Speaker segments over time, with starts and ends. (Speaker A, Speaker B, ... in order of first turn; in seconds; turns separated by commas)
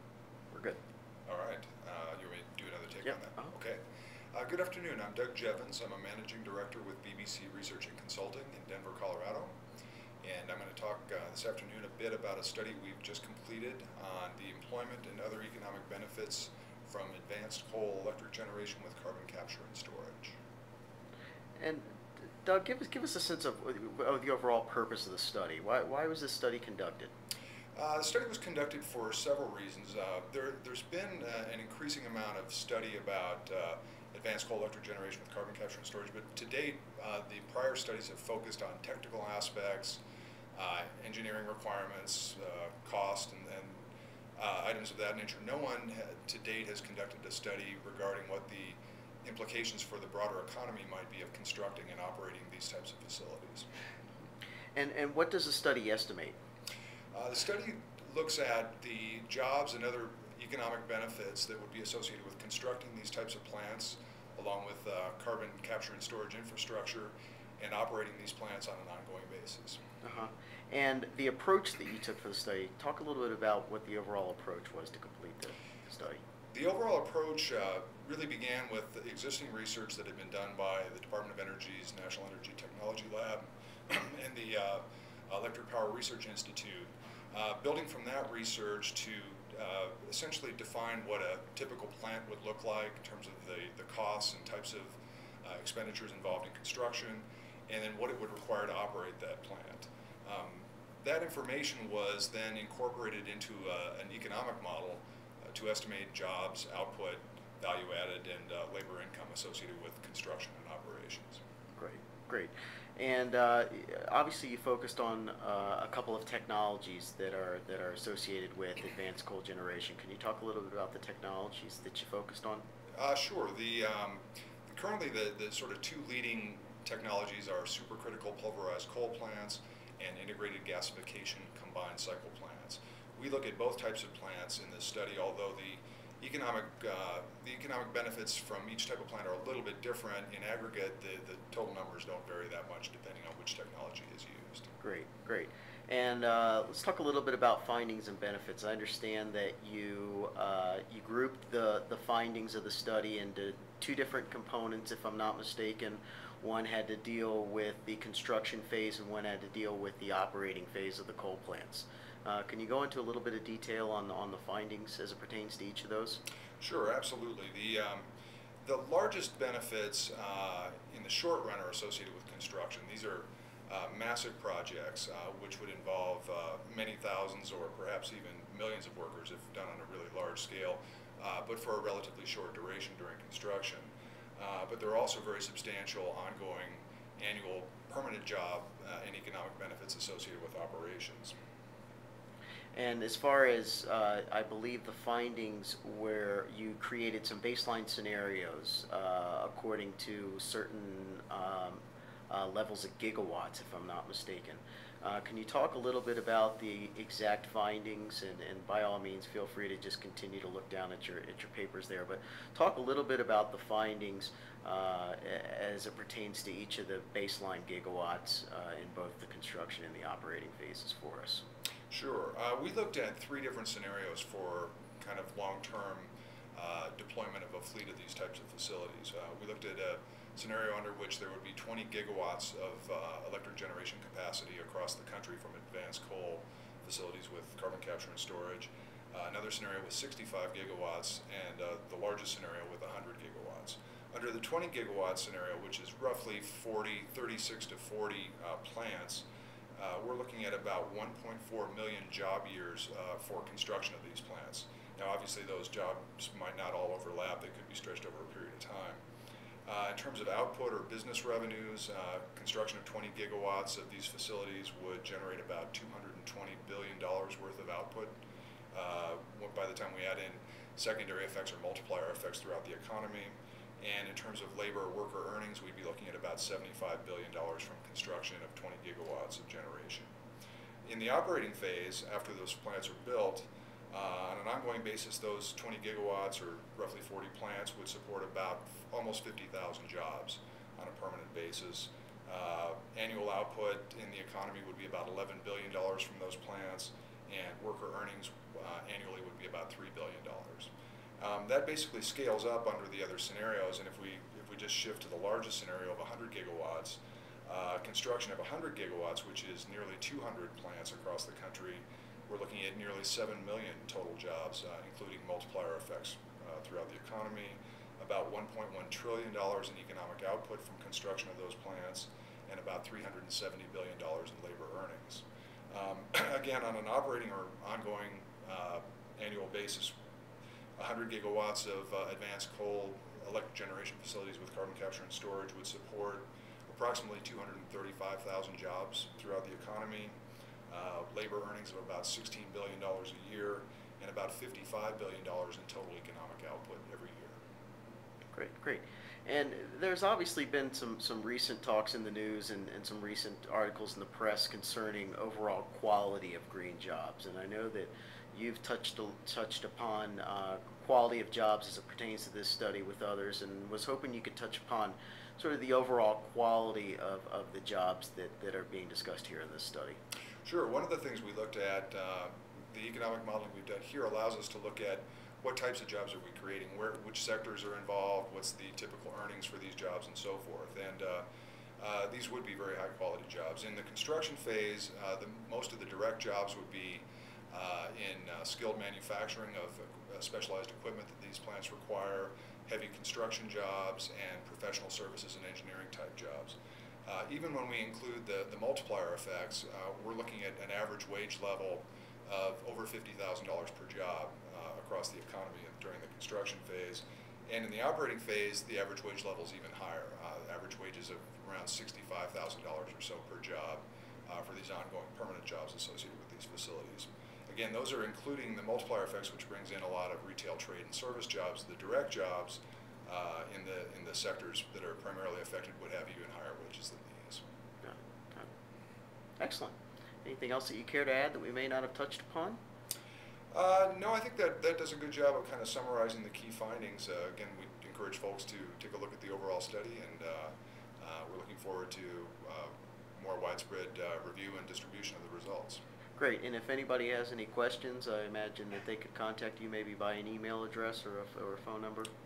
Speaker A: 0.5-0.8, Speaker B: 1.3-3.8, Speaker B: 4.3-9.6, Speaker B: 10.2-20.4, Speaker A: 21.6-21.9, Speaker A: 22.4-27.1, Speaker B: 27.8-40.0, Speaker B: 40.5-43.9, Speaker B: 44.4-53.7, Speaker A: 54.8-56.4, Speaker B: 57.1-69.8, Speaker A: 70.0-76.2, Speaker B: 76.5-111.4, Speaker A: 111.8-122.6, Speaker B: 123.0-144.7, Speaker A: 144.8-166.2, Speaker B: 166.6-168.1, Speaker B: 168.6-191.3, Speaker A: 192.7-221.4, Speaker B: 221.9-259.0, Speaker B: 259.7-268.1, Speaker B: 268.7-280.1, Speaker B: 280.9-330.0, Speaker B: 330.8-340.1, Speaker B: 340.7-347.4, Speaker A: 348.3-370.0, Speaker B: 370.4-381.2, Speaker B: 381.8-427.4, Speaker A: 427.8-428.5, Speaker A: 429.4-432.6, Speaker B: 433.5-445.8, Speaker A: 446.2-452.1